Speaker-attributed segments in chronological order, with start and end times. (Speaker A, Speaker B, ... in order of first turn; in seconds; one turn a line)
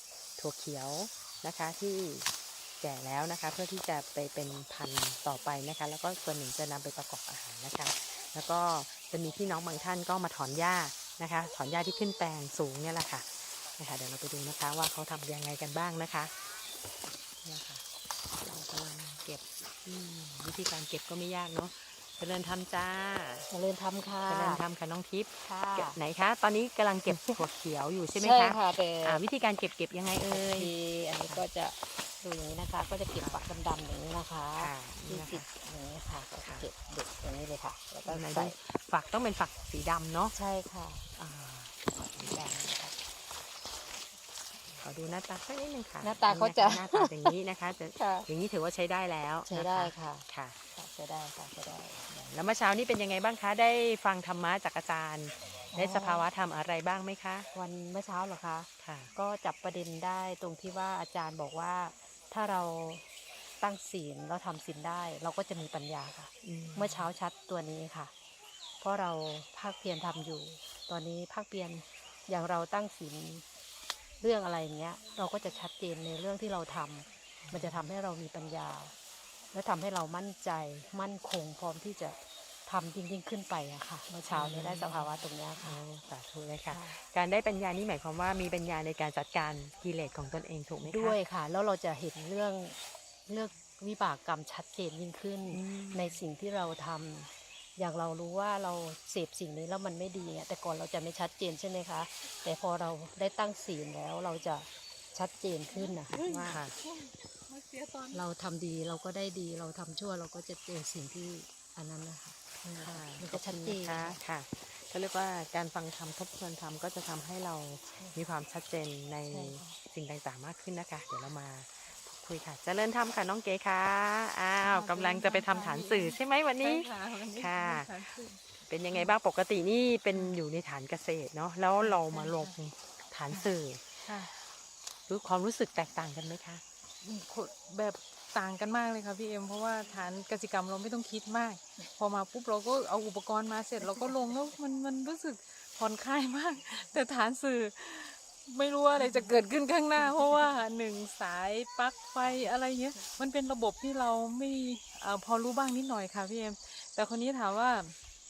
Speaker A: 0.4-2.3
Speaker A: 2.8-16.3
Speaker A: 17.4-17.8
Speaker A: 18.4-23.5
Speaker B: 23.5-24.6
Speaker A: 24.2-31.4
Speaker B: 25.4-26.0
Speaker B: 27.1-27.4
Speaker B: 28.1-29.2
Speaker B: 30.2-38.6
Speaker A: 33.2-33.6
Speaker A: 34.6-35.5
Speaker A: 38.0-40.4
Speaker B: 40.3-41.1
Speaker A: 41.2-43.0
Speaker A: 44.8-50.6
Speaker B: 46.0-47.3
Speaker B: 47.9-48.3
Speaker B: 49.5-52.1
Speaker A: 52.1-57.5
Speaker B: 55.7-56.2
Speaker B: 57.5-63.0
Speaker A: 58.8-59.1
Speaker B: 63.6-68.1
Speaker A: 66.4-67.1
Speaker B: 68.8-73.4
Speaker B: 74.2-78.9
Speaker A: 77.4-77.9
Speaker B: 79.5-85.8
Speaker A: 84.3-91.2
Speaker B: 86.7-87.0
Speaker B: 90.8-92.8
Speaker B: 93.3-106.6
Speaker A: 95.5-96.1
Speaker C: 105.7-106.4
Speaker A: 106.5-106.7
Speaker C: 107.0-108.2
Speaker B: 108.1-114.2
Speaker A: 112.7-134.4
Speaker B: 119.3-119.6
Speaker C: 124.6-128.4
Speaker C: 130.1-130.4
Speaker C: 131.8-132.5
Speaker C: 134.1-134.3
Speaker A: 135.1-136.6
Speaker C: 137.0-157.9
Speaker B: 143.8-144.1